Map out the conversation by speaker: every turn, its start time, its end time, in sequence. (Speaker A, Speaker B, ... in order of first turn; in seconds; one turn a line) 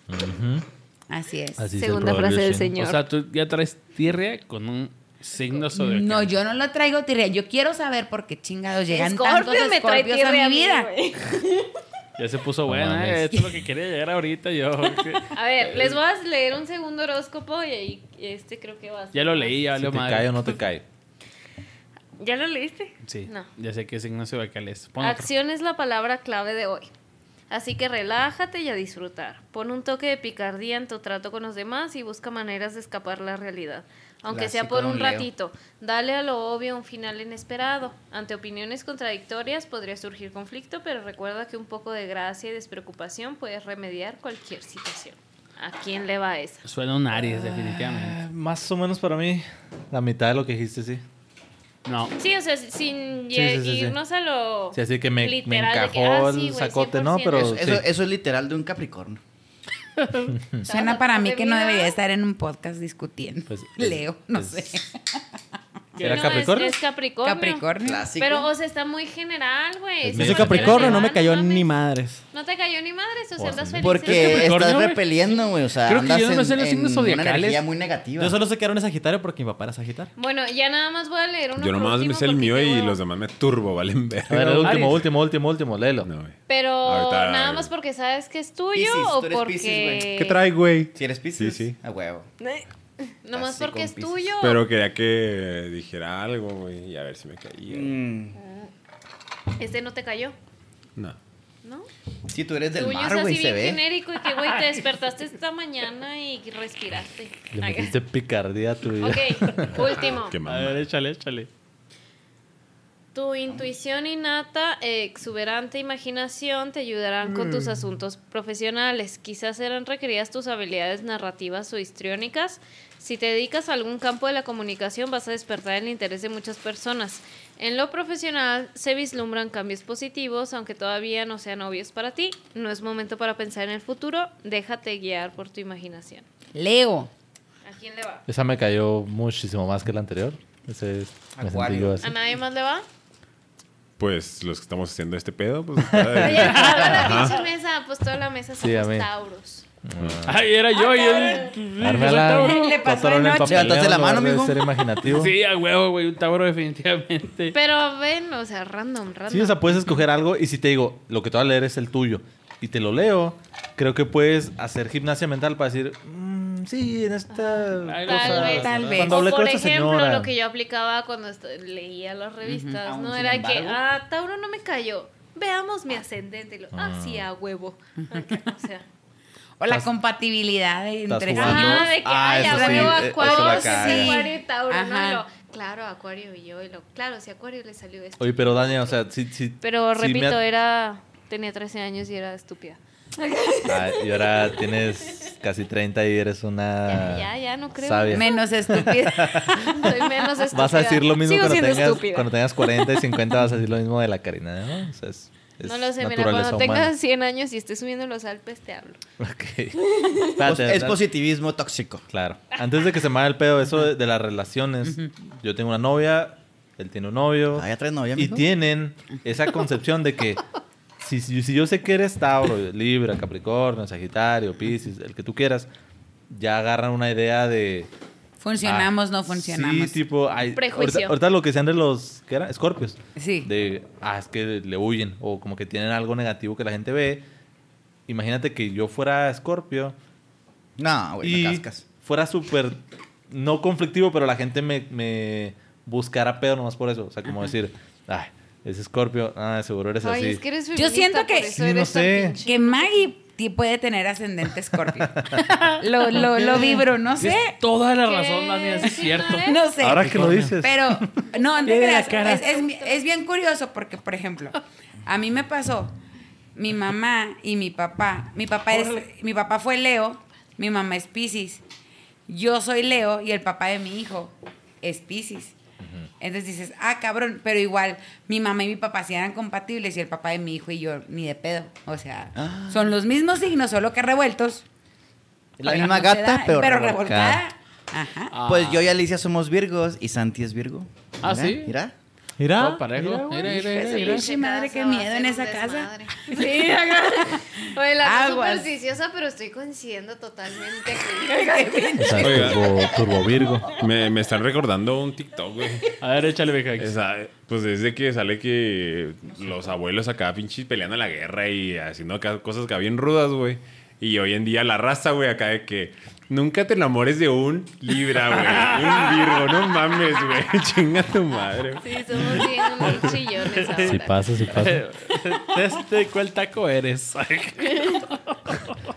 Speaker A: 0.1-0.7
Speaker B: 1.1-1.7
Speaker A: 1.6-2.7
Speaker C: 1.8-3.0
Speaker D: 2.8-6.3
Speaker B: 5.8-10.9
Speaker C: 8.9-11.7
Speaker D: 12.2-16.0
Speaker A: 12.7-13.4
Speaker C: 15.3-19.6
Speaker D: 19.1-20.5
Speaker A: 19.8-20.8
Speaker C: 22.2-23.5
Speaker D: 23.0-25.3
Speaker C: 25.0-26.9
Speaker C: 27.5-46.6
Speaker E: 34.3-35.3
Speaker D: 46.6-48.2
Speaker A: 47.1-51.0
Speaker D: 51.9-52.1
Speaker C: 52.2-57.6
Speaker A: 53.3-54.0
Speaker A: 54.7-57.9
Speaker E: 57.3-59.2
Speaker D: 60.0-60.3
Speaker A: 60.3-60.6
Speaker C: 60.6-62.0
Speaker B: 60.6-65.2
Speaker A: 63.5-64.6
Speaker D: 66.0-66.6
Speaker A: 66.0-66.8
Speaker C: 66.0-67.7
Speaker B: 67.2-68.1
Speaker E: 67.8-68.5
Speaker C: 68.2-71.7
Speaker A: 70.1-71.0
Speaker F: 70.1-72.2
Speaker C: 72.3-74.7
Speaker A: 73.4-73.9
Speaker E: 73.8-78.4
Speaker D: 74.0-75.0
Speaker D: 75.8-77.6
Speaker F: 78.2-80.1
Speaker C: 80.2-83.0
Speaker G: 81.6-84.6
Speaker A: 84.3-86.1
Speaker D: 84.6-85.0
Speaker G: 86.0-87.7
Speaker C: 86.5-90.4
Speaker E: 88.7-90.2
Speaker G: 90.2-91.8
Speaker E: 90.9-92.3
Speaker C: 92.4-94.6
Speaker E: 93.3-94.3
Speaker G: 94.4-97.9
Speaker E: 97.7-98.4
Speaker C: 98.3-98.7
Speaker C: 99.6-100.3
Speaker E: 102.3-103.8
Speaker C: 102.7-107.9
Speaker A: 107.5-109.8
Speaker C: 109.0-110.4
Speaker G: 110.1-110.8
Speaker D: 110.5-111.5
Speaker C: 113.1-136.2
Speaker B: 136.5-137.1
Speaker C: 137.6-138.2
Speaker A: 138.3-142.1
Speaker E: 141.3-142.0
Speaker C: 142.0-142.8
Speaker G: 144.0-147.4
Speaker A: 145.8-146.4
Speaker C: 146.2-149.6
Speaker D: 146.4-146.9
Speaker A: 148.6-149.1
Speaker A: 149.8-150.5
Speaker D: 150.2-152.8
Speaker C: 150.8-151.5
Speaker A: 151.8-155.3
Speaker B: 152.3-153.7
Speaker E: 153.4-154.7
Speaker D: 155.1-157.5
Speaker C: 157.5-159.8
Speaker A: 159.3-170.3
Speaker C: 167.3-178.8
Speaker D: 167.8-169.1
Speaker B: 168.3-169.2
Speaker B: 172.4-172.8
Speaker E: 172.8-173.8
Speaker A: 176.7-177.3
Speaker B: 178.1-178.4
Speaker B: 179.6-181.9
Speaker A: 181.1-184.1
Speaker C: 181.3-189.0
Speaker E: 182.0-184.1
Speaker B: 182.4-185.2
Speaker A: 188.2-190.4
Speaker C: 189.6-195.3
Speaker A: 193.7-199.7
Speaker C: 196.9-198.4
Speaker B: 198.1-199.9
Speaker C: 199.6-202.3
Speaker A: 200.5-206.9
Speaker C: 205.6-209.0
Speaker A: 209.2-211.0
Speaker C: 209.9-210.2
Speaker E: 210.4-212.0
Speaker A: 212.1-220.4
Speaker C: 212.6-212.9
Speaker E: 217.5-218.4
Speaker A: 221.0-225.7
Speaker A: 226.3-227.9
Speaker B: 228.4-230.0
Speaker A: 228.6-237.2
Speaker C: 230.5-231.2
Speaker B: 233.2-233.5
Speaker A: 238.1-239.9
Speaker E: 240.8-241.8
Speaker A: 241.2-250.4
Speaker C: 250.0-253.0
Speaker B: 250.7-251.6
Speaker A: 251.5-252.4
Speaker B: 252.4-257.5
Speaker D: 255.4-260.5
Speaker C: 258.0-259.7
Speaker B: 259.2-265.9
Speaker A: 259.8-261.0
Speaker C: 261.6-263.0
Speaker D: 261.6-262.4
Speaker B: 266.5-271.6
Speaker D: 268.7-269.0
Speaker B: 272.3-275.5
Speaker B: 276.2-284.6
Speaker E: 282.4-282.9
Speaker E: 285.6-287.4
Speaker B: 285.6-288.3
Speaker D: 288.3-288.9
Speaker E: 288.4-291.9
Speaker D: 291.2-291.7
Speaker F: 292.4-293.6
Speaker D: 292.5-294.3
Speaker B: 293.4-297.4
Speaker C: 293.8-302.3
Speaker B: 298.0-298.7
Speaker B: 301.4-302.8
Speaker A: 302.0-303.7
Speaker G: 302.2-302.6
Speaker G: 303.7-305.8
Speaker D: 306.0-306.9
Speaker G: 306.8-322.4
Speaker D: 318.3-319.2
Speaker C: 321.8-324.1
Speaker D: 322.8-328.7
Speaker A: 323.9-324.8
Speaker C: 327.6-328.0